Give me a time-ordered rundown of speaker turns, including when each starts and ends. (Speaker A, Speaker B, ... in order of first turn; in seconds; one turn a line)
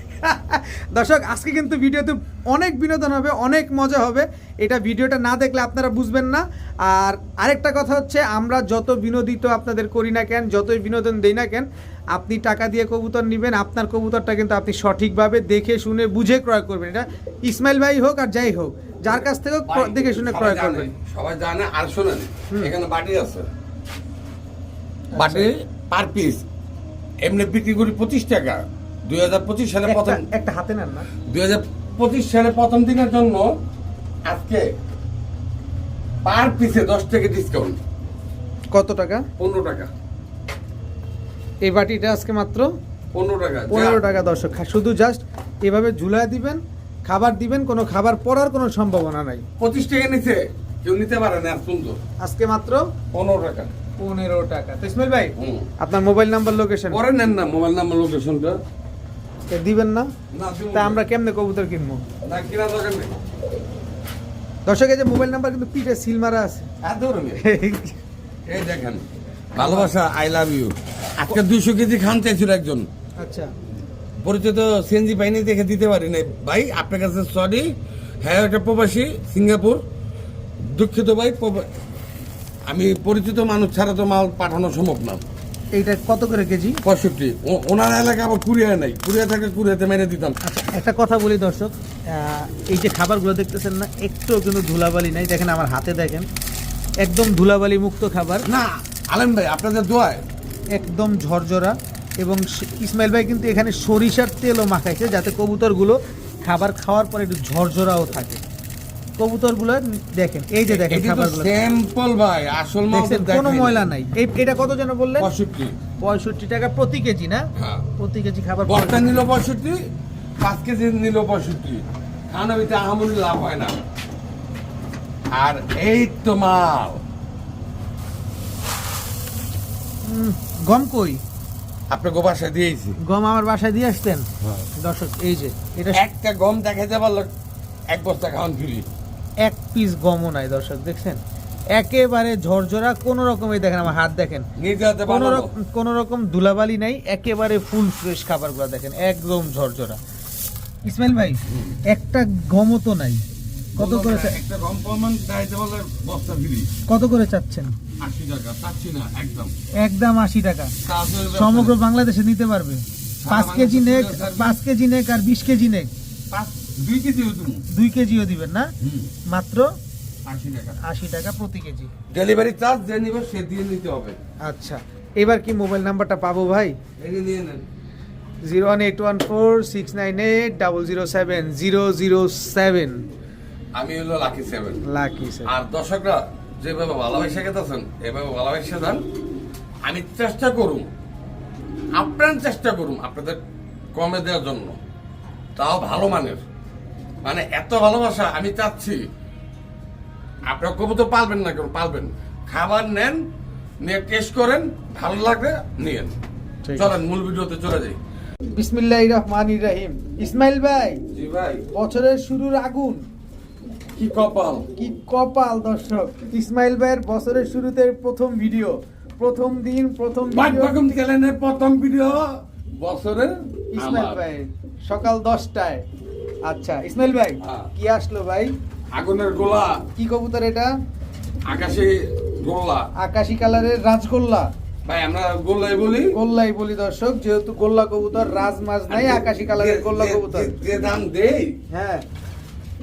Speaker A: 0.2-20.9
Speaker B: 19.7-23.5
Speaker A: 25.1-25.5
Speaker B: 25.1-26.4
Speaker B: 27.2-30.2
Speaker A: 29.8-31.1
Speaker B: 31.2-33.5
Speaker B: 34.2-34.7
Speaker B: 36.2-37.8
Speaker A: 38.7-39.2
Speaker B: 39.4-39.9
Speaker A: 41.6-42.7
Speaker B: 43.1-44.0
Speaker A: 43.7-49.4
Speaker B: 49.6-52.0
Speaker A: 52.2-52.9
Speaker B: 53.1-53.7
Speaker A: 54.0-57.0
Speaker B: 55.4-55.7
Speaker B: 56.9-58.6
Speaker A: 59.5-60.1
Speaker B: 60.3-61.0
Speaker A: 60.7-62.0
Speaker B: 62.2-63.1
Speaker A: 64.7-66.7
Speaker B: 66.8-67.4
Speaker A: 67.4-68.0
Speaker B: 68.5-69.0
Speaker B: 69.5-72.9
Speaker A: 69.6-69.9
Speaker A: 73.2-73.5
Speaker B: 74.2-79.8
Speaker B: 80.6-81.7
Speaker B: 82.7-85.2
Speaker A: 85.7-86.8
Speaker B: 86.8-90.4
Speaker A: 90.4-96.3
Speaker A: 97.0-98.5
Speaker B: 98.5-100.2
Speaker A: 100.7-108.4
Speaker A: 109.2-111.5
Speaker B: 110.7-113.9
Speaker A: 112.9-115.3
Speaker B: 115.2-115.7
Speaker A: 116.0-119.2
Speaker B: 117.5-117.8
Speaker B: 118.7-119.8
Speaker B: 120.4-123.8
Speaker B: 125.3-127.0
Speaker A: 130.0-131.2
Speaker B: 131.9-133.0
Speaker A: 133.0-134.3
Speaker A: 134.8-136.0
Speaker B: 135.9-137.3
Speaker B: 137.9-138.9
Speaker A: 139.4-141.2
Speaker A: 141.7-144.5
Speaker B: 144.6-145.5
Speaker A: 145.0-150.0
Speaker A: 150.8-153.2
Speaker B: 151.5-151.8
Speaker B: 153.8-156.7
Speaker A: 153.8-154.4
Speaker A: 156.9-157.8
Speaker B: 158.0-159.5
Speaker A: 159.8-160.7
Speaker B: 160.8-161.8
Speaker A: 161.3-165.9
Speaker B: 163.2-164.5
Speaker B: 166.3-167.6
Speaker A: 167.7-168.7
Speaker B: 168.8-169.1
Speaker A: 169.3-169.7
Speaker B: 170.2-170.8
Speaker A: 170.8-171.9
Speaker B: 172.1-174.2
Speaker A: 174.4-176.8
Speaker B: 177.0-177.6
Speaker A: 178.4-183.0
Speaker B: 183.7-184.8
Speaker A: 184.9-185.5
Speaker B: 185.4-189.0
Speaker B: 189.8-190.9
Speaker B: 191.9-193.4
Speaker B: 193.9-194.8
Speaker B: 195.6-196.4
Speaker B: 197.2-199.1
Speaker B: 200.5-203.2
Speaker B: 203.8-206.1
Speaker A: 206.6-207.0
Speaker B: 206.7-208.0
Speaker A: 208.5-211.0
Speaker B: 211.1-211.6
Speaker A: 211.7-213.0
Speaker B: 213.9-214.7
Speaker A: 214.8-220.9
Speaker B: 220.3-224.2
Speaker A: 223.7-225.8
Speaker A: 226.4-228.5
Speaker B: 227.4-227.7
Speaker B: 228.9-229.8
Speaker A: 229.9-230.7
Speaker B: 231.4-232.9
Speaker A: 232.9-234.5
Speaker B: 234.8-236.2
Speaker A: 236.1-240.6
Speaker B: 238.9-241.6
Speaker A: 241.7-242.0